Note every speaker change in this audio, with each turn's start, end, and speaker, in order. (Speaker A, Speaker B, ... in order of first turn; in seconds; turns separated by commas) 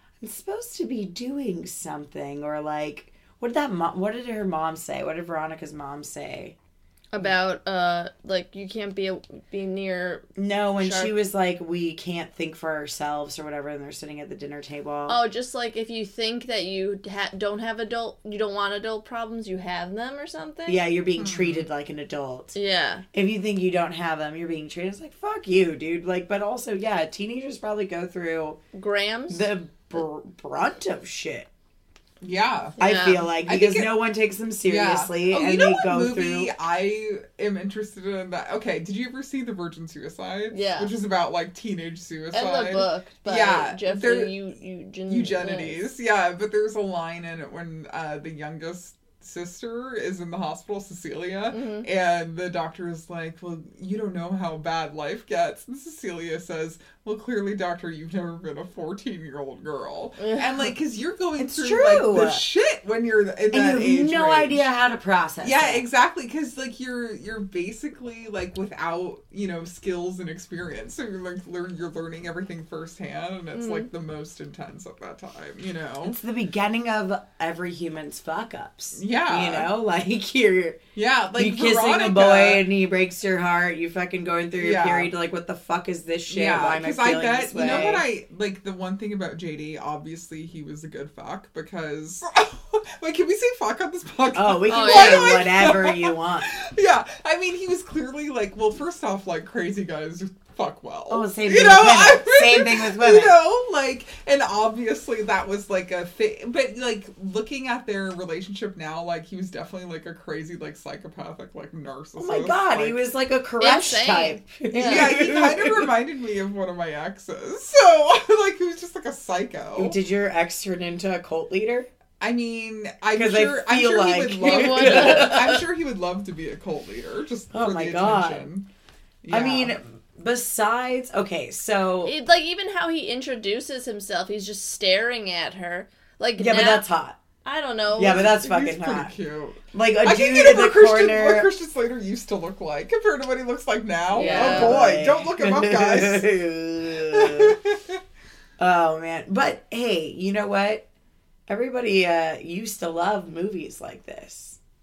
Speaker A: 0.2-6.6, Speaker B: 7.1-11.2, Speaker A: 10.4-15.2, Speaker B: 15.1-20.8, Speaker A: 20.7-22.6, Speaker C: 21.2-21.7, Speaker B: 22.6-23.0, Speaker A: 23.1-28.6, Speaker B: 28.7-29.5, Speaker A: 29.3-31.5, Speaker C: 32.2-32.8, Speaker B: 32.8-33.3, Speaker A: 32.8-36.5, Speaker C: 33.4-33.9, Speaker C: 34.6-44.4, Speaker B: 40.5-40.9, Speaker B: 42.3-45.8, Speaker C: 45.1-64.7, Speaker B: 51.5-51.9, Speaker B: 60.2-60.7, Speaker A: 61.4-62.4, Speaker A: 63.5-65.8, Speaker C: 65.4-76.2, Speaker B: 73.5-73.9, Speaker A: 76.0-80.8, Speaker C: 79.0-79.7, Speaker C: 81.0-82.6, Speaker A: 81.3-88.1, Speaker C: 84.6-85.1, Speaker C: 86.3-113.0, Speaker B: 87.6-88.0, Speaker A: 94.3-96.5, Speaker B: 94.7-95.4, Speaker A: 101.1-103.4, Speaker A: 112.2-115.9, Speaker B: 113.6-115.1, Speaker C: 114.8-120.0, Speaker A: 119.8-121.9, Speaker C: 122.2-128.7, Speaker A: 123.1-125.6, Speaker B: 124.4-125.6, Speaker A: 127.5-128.5, Speaker C: 129.2-129.8, Speaker A: 129.3-132.1, Speaker B: 132.0-136.9, Speaker A: 136.4-137.2, Speaker B: 137.4-138.3, Speaker A: 138.0-139.1, Speaker C: 138.0-146.3, Speaker A: 139.7-141.5, Speaker A: 144.1-147.6, Speaker B: 144.1-144.8, Speaker C: 147.1-147.9, Speaker A: 148.6-150.9, Speaker A: 151.5-154.6